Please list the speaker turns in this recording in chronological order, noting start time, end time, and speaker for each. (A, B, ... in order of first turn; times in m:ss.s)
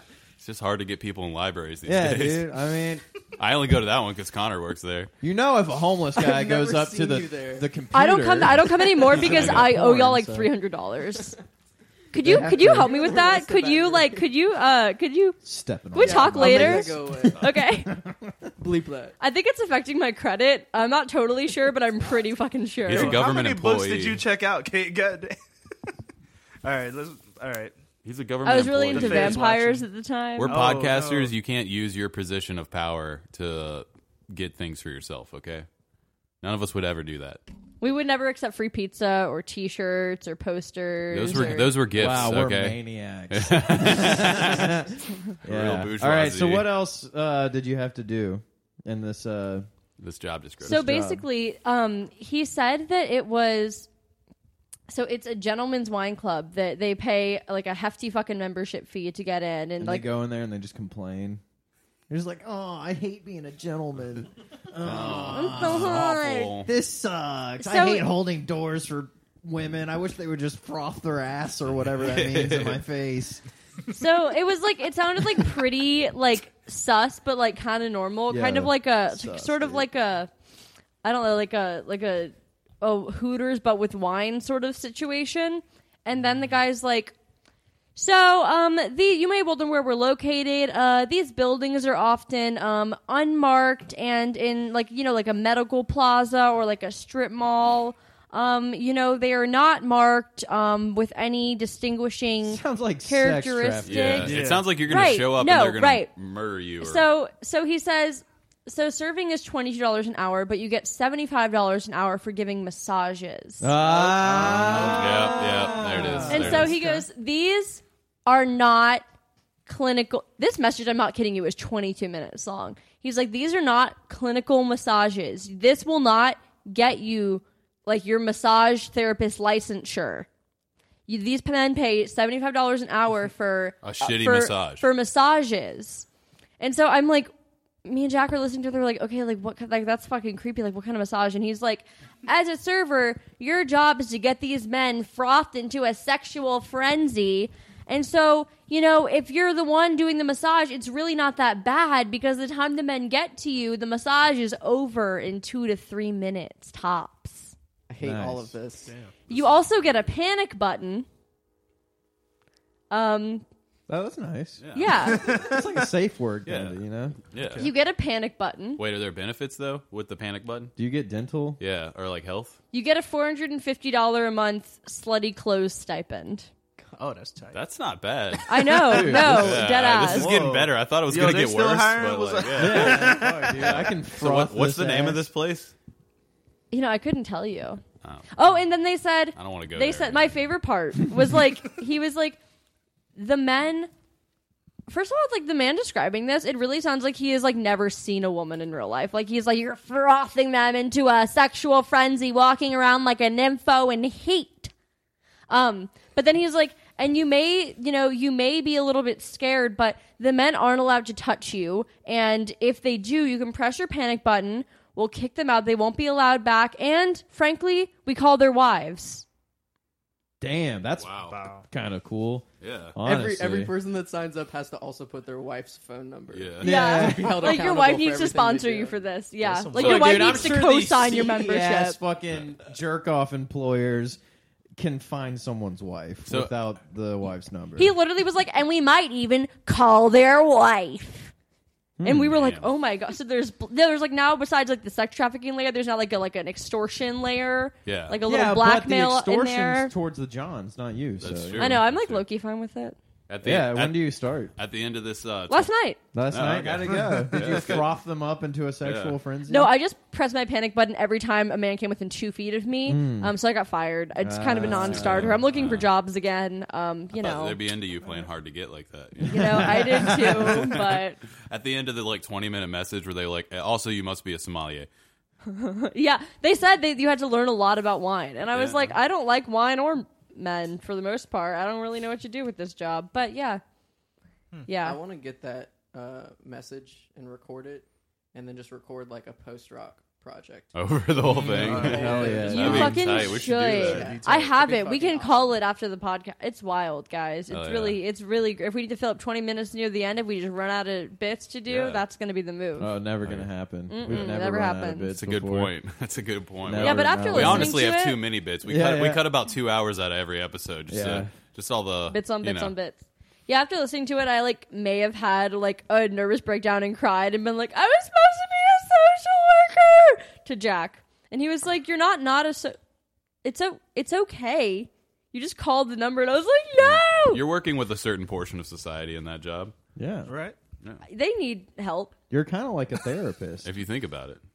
0:00.4-0:02.5 A
0:01.8-0:03.0 B
0:03.4-0:05.1 A
0:05.2-0:10.5 B
0:06.2-0:07.7 C
0:07.9-0:11.4 D
0:09.1-0:09.7 A
0:12.1-0:15.4 D
0:12.2-0:13.0 B
0:12.2-0:14.3 C
0:15.4-0:18.3 B
0:15.9-0:17.9 D
0:16.0-0:17.6 C
0:18.6-0:19.2 C
0:19.2-0:23.2 D
0:22.9-0:24.2 A
0:22.9-0:25.4 E
0:26.6-0:27.7 E
0:28.0-0:29.4 A
0:28.4-0:30.6 D
0:28.9-0:29.9 E
0:30.4-0:35.7 A
0:30.4-0:31.3 E
0:36.4-0:37.4 A
0:37.8-0:41.8 D
0:41.1-0:44.7 A
0:41.9-0:49.7 B
0:45.4-0:46.7 A
0:50.0-0:50.8 A
0:50.6-0:51.2 B
0:50.6-0:53.9 D
0:54.9-1:00.1 D
0:59.8-1:01.4 B
1:02.1-1:06.1 B
1:04.8-1:06.7 A
1:05.3-1:06.6 D
1:06.6-1:13.4 B
1:07.6-1:08.1 D
1:12.0-1:12.8 A
1:13.9-1:20.3 D
1:18.3-1:19.9 B
1:21.0-1:27.2 D
1:28.0-1:44.3 D
1:42.4-1:44.4 B
1:43.8-1:47.1 A
1:44.2-1:44.8 E
1:44.9-1:46.1 D
1:46.8-1:53.7 D
1:53.6-1:57.0 B
1:53.8-1:56.3 E
1:54.2-1:56.7 A
1:56.3-1:59.0 D
1:59.7-2:10.3 D
2:11.1-2:16.1 D
2:13.8-2:14.9 A
2:16.6-2:17.3 D
2:17.8-2:37.5 D
2:37.9-2:38.9 C
2:38.0-2:38.6 B
2:38.9-2:39.6 E
2:39.3-2:41.1 D
2:42.9-2:43.4 D
2:43.9-2:47.2 B
2:44.6-2:45.2 A
2:44.8-2:45.3 D
2:45.1-2:45.6 E
2:46.5-2:46.8 A
2:47.3-2:47.7 A
2:47.4-2:47.7 E
2:47.6-2:48.8 D
2:48.8-2:50.7 A
2:50.8-2:51.6 B
2:51.6-2:52.6 A
2:52.7-2:56.5 D
2:57.0-2:57.6 E
2:57.5-3:05.7 A
2:58.5-3:00.3 D
2:58.6-3:00.7 B
3:00.2-3:00.5 E
3:01.1-3:03.8 E
3:02.5-3:05.3 B
3:06.7-3:12.4 D
3:09.4-3:10.2 A
3:13.2-3:13.9 D
3:14.9-3:24.7 D
3:25.5-3:39.2 D
3:40.4-3:41.2 B
3:41.0-3:41.4 A
3:41.3-3:41.7 E
3:41.7-3:43.8 B
3:42.6-3:43.0 A
3:43.0-3:49.0 C
3:46.3-3:46.7 A
3:46.6-3:47.7 B
3:46.6-3:52.0 D
3:49.4-3:50.4 E
3:49.7-3:54.2 B
3:49.7-3:50.5 A
3:54.8-3:58.0 B
3:56.3-3:56.6 A
3:57.8-4:01.3 D
4:02.0-4:02.4 B
4:02.0-4:09.9 D
4:02.3-4:02.7 A
4:07.8-4:08.2 A
4:08.2-4:11.8 B
4:11.2-4:12.2 A
4:11.6-4:13.0 D
4:13.3-4:15.7 A
4:13.4-4:14.5 B
4:15.5-4:16.0 D
4:16.1-4:19.7 B
4:16.3-4:17.9 A
4:18.8-4:19.2 A
4:19.5-4:27.6 D
4:22.9-4:23.3 B
4:24.2-4:25.4 B
4:24.7-4:25.9 A
4:27.2-4:34.9 A
4:29.2-4:30.7 B
4:29.3-4:31.2 D
4:35.5-4:43.6 D
4:38.5-4:39.0 A
4:44.7-4:45.0 D
4:44.8-4:50.7 C
4:50.7-4:54.1 A
4:51.2-4:52.7 E
4:51.6-4:53.1 B
4:51.6-4:55.6 C
4:52.5-5:03.0 D
4:53.7-4:54.5 E
4:57.5-4:58.0 A
5:01.7-5:02.0 A
5:02.8-5:05.7 B
5:03.2-5:03.5 A
5:03.9-5:05.1 D
5:04.1-5:04.4 A
5:05.2-5:12.7 A
5:06.6-5:08.0 B
5:06.8-5:08.2 D
5:08.6-5:09.3 B
5:10.9-5:11.3 B
5:12.1-5:22.8 D
5:23.4-5:27.4 D
5:26.8-5:29.7 A
5:30.0-5:30.3 B
5:30.3-5:30.6 E
5:31.0-5:32.1 D
5:32.3-5:33.7 B
5:33.6-5:34.4 A